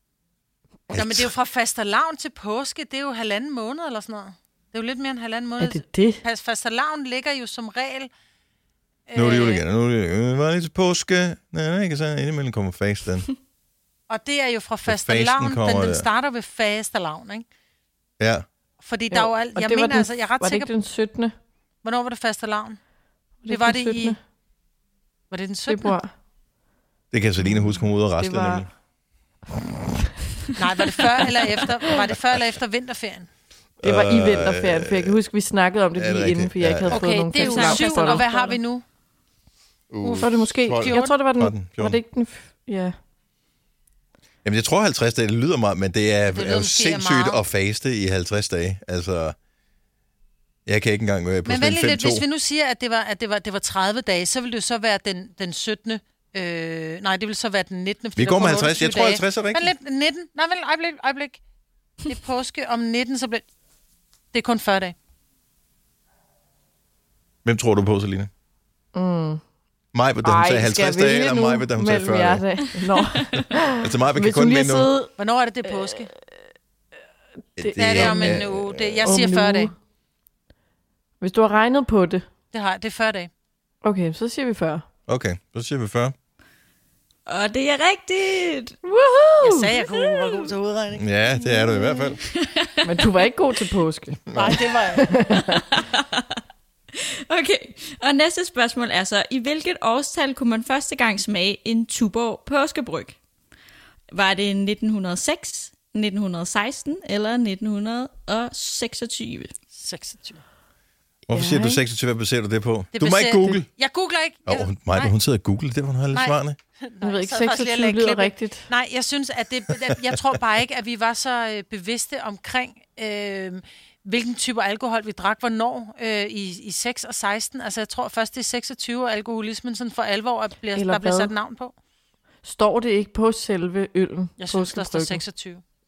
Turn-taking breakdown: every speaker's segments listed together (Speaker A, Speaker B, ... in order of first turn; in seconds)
Speaker A: 0.9-1.3, 9.2-13.3, 14.9-16.1, 18.2-18.5, 27.1-28.7, 33.8-35.2, 36.0-37.0, 39.9-42.0, 44.4-49.4, 50.7-52.2, 58.2-59.7, 67.5-68.3, 69.9-72.4, 73.8-74.9, 77.6-79.1, 85.1-86.2, 90.9-92.2, 94.3-94.6, 111.3-113.7, 114.5-116.6
Speaker B: 0.9-8.1, 9.1-9.6, 14.1-17.4, 18.8-20.7, 21.8-22.8, 23.5-24.2, 25.3-26.0, 30.6-33.3, 36.9-38.8, 40.0-41.1, 46.3-47.4, 51.5-61.4, 62.1-63.4, 64.3-65.0, 75.2-76.1, 77.8-79.7, 82.5-83.3, 89.4-91.1, 94.3-95.1, 109.7-110.4, 113.0-115.1, 116.1-131.7, 134.4-135.6
Speaker C: 5.6-6.2, 19.1-21.3, 23.4-24.2, 25.7-26.1, 28.2-28.7, 33.8-38.6, 40.2-43.0, 68.9-69.4, 70.2-75.1, 75.7-76.0, 77.6-78.4, 79.0-79.7, 81.2-82.3, 83.8-84.9, 88.8-90.1, 92.8-94.3, 95.0-95.6, 111.3-111.8, 117.0-118.7, 130.8-131.3, 132.4-135.2
Speaker D: 37.3-38.3, 87.3-88.8, 92.3-93.1, 95.4-96.4, 96.9-103.2, 104.1-109.5